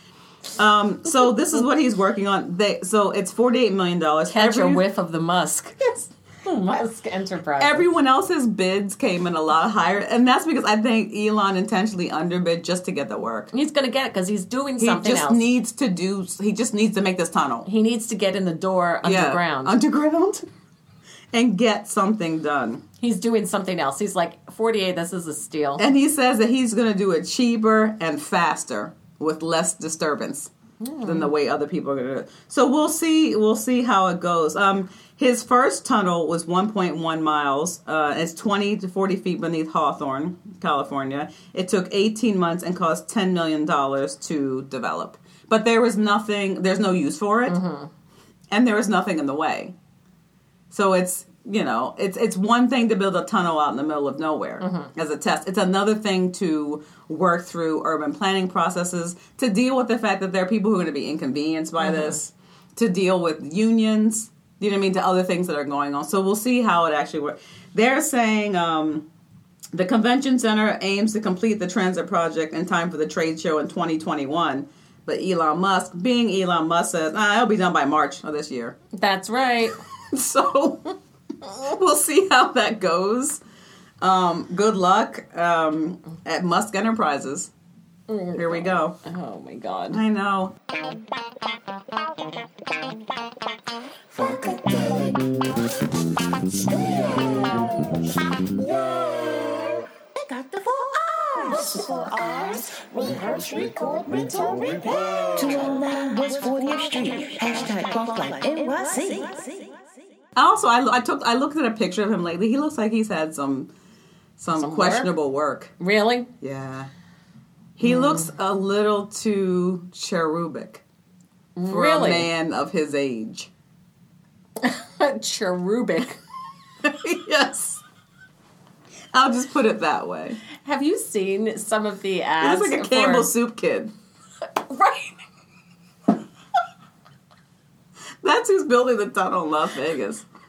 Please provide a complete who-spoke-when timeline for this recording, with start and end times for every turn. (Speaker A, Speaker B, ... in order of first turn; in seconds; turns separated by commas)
Speaker A: 0.6-4.8, Speaker B: 4.3-7.9, Speaker A: 7.6-13.5, Speaker B: 13.5-15.4, Speaker A: 14.8-17.7, Speaker B: 17.6-19.8, Speaker A: 19.0-20.5, Speaker A: 21.3-22.8, Speaker B: 23.0-25.8, Speaker A: 25.8-47.6, Speaker B: 30.8-31.3, Speaker B: 47.5-47.9, Speaker A: 48.5-49.7, Speaker A: 50.7-69.1, Speaker B: 54.6-54.9, Speaker B: 61.8-62.1, Speaker A: 69.7-78.8, Speaker B: 78.9-79.8, Speaker A: 80.1-83.4, Speaker A: 84.0-87.5, Speaker B: 88.1-90.0, Speaker A: 88.3-89.0, Speaker A: 89.9-90.5, Speaker C: 94.1-95.7, Speaker C: 96.4-109.7, Speaker A: 110.4-113.7, Speaker A: 114.4-115.7, Speaker B: 114.5-115.1, Speaker B: 115.8-116.3, Speaker A: 116.4-116.9, Speaker A: 117.8-120.8, Speaker B: 117.8-118.2, Speaker B: 121.6-122.3, Speaker A: 121.7-123.5, Speaker B: 124.6-126.2, Speaker A: 126.8-127.8, Speaker A: 129.1-130.4, Speaker B: 130.6-133.3, Speaker A: 132.4-133.9, Speaker B: 134.4-135.2, Speaker A: 138.2-140.2